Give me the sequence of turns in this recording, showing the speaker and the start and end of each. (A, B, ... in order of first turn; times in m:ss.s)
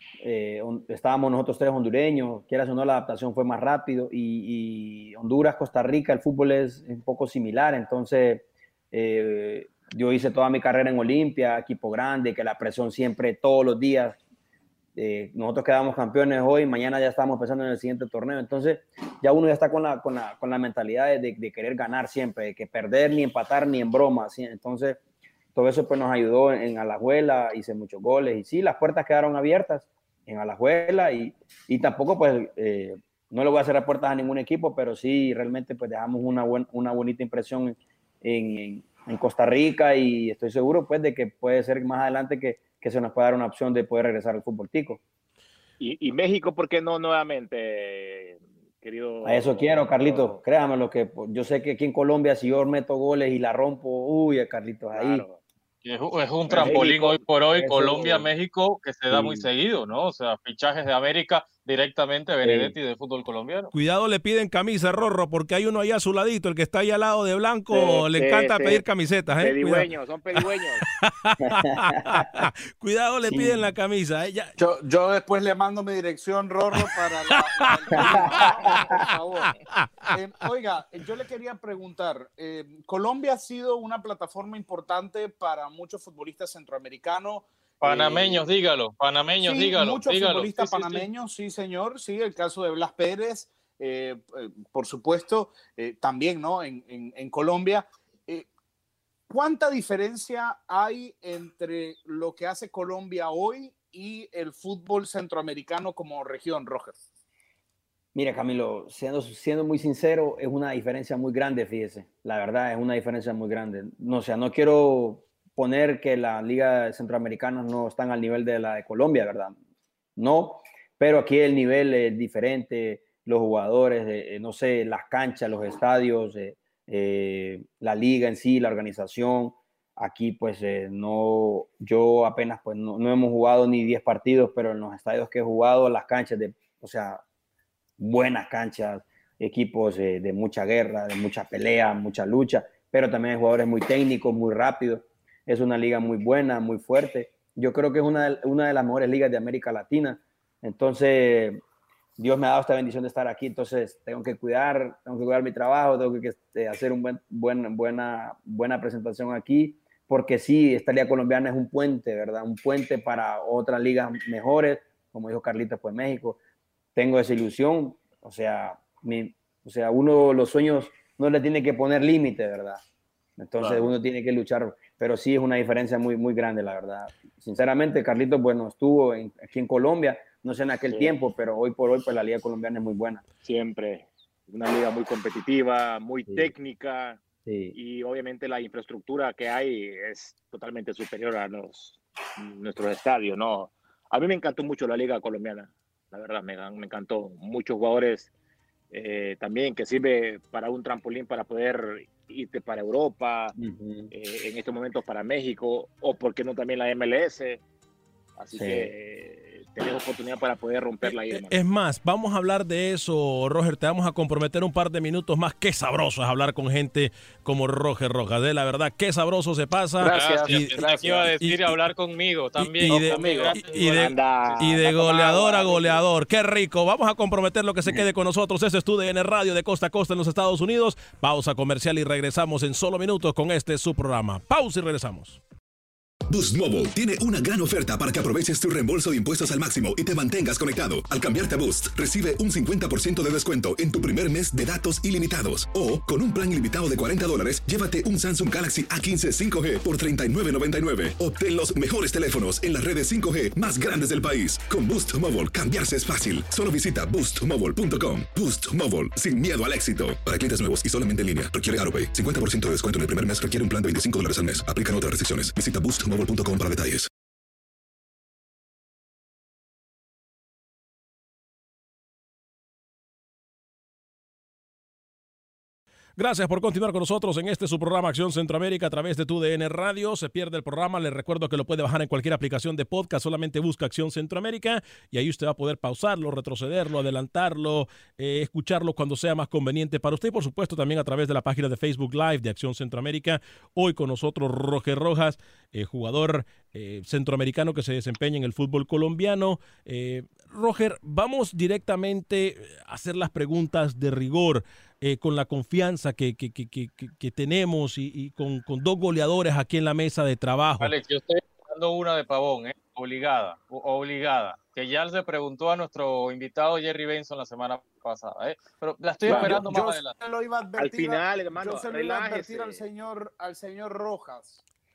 0:00.2-0:14.2 A
0:14.9-0:25.0 A
0:25.5-0:45.0 A
0:45.8-0:50.4 B
0:49.2-0:55.2 A
0:54.9-0:55.4 B
0:55.8-1:03.7 C
0:56.5-0:56.9 A
0:56.5-0:57.2 B
0:57.5-0:58.3 A
0:59.1-0:59.4 A
1:02.4-1:02.7 A
1:03.7-1:14.5 D
1:07.7-1:08.8 B
1:09.4-1:10.8 B
1:11.5-1:12.5 A
1:13.3-1:13.6 A
1:14.6-1:19.0 E
1:16.7-1:19.1 D
1:18.1-1:19.6 B
1:19.7-1:20.0 D
1:20.1-1:27.5 E
1:27.8-1:31.1 C
1:29.4-1:38.4 E
1:39.3-1:47.0 E
1:48.1-1:59.5 A
2:00.2-2:17.2 A
2:18.0-2:31.6 A
2:32.2-2:46.4 A
2:46.9-2:52.8 A
2:53.4-3:03.2 A
2:53.6-2:53.9 B
3:03.4-3:07.2 B
3:07.4-3:07.7 A
3:07.7-3:18.3 B
3:18.9-3:23.6 B
3:23.6-3:24.1 A
3:24.1-3:27.6 B
3:28.4-3:31.6 B
3:28.5-3:28.9 A
3:31.0-3:41.8 D
3:40.0-3:41.3 B
3:40.1-3:44.5 C
3:42.6-3:55.4 D
3:43.1-3:46.0 B
3:56.3-4:27.1 F
4:36.2-5:10.9 D
5:10.8-5:20.1 C
5:19.2-5:19.6 B
5:19.2-5:24.6 E
5:20.8-5:22.8 B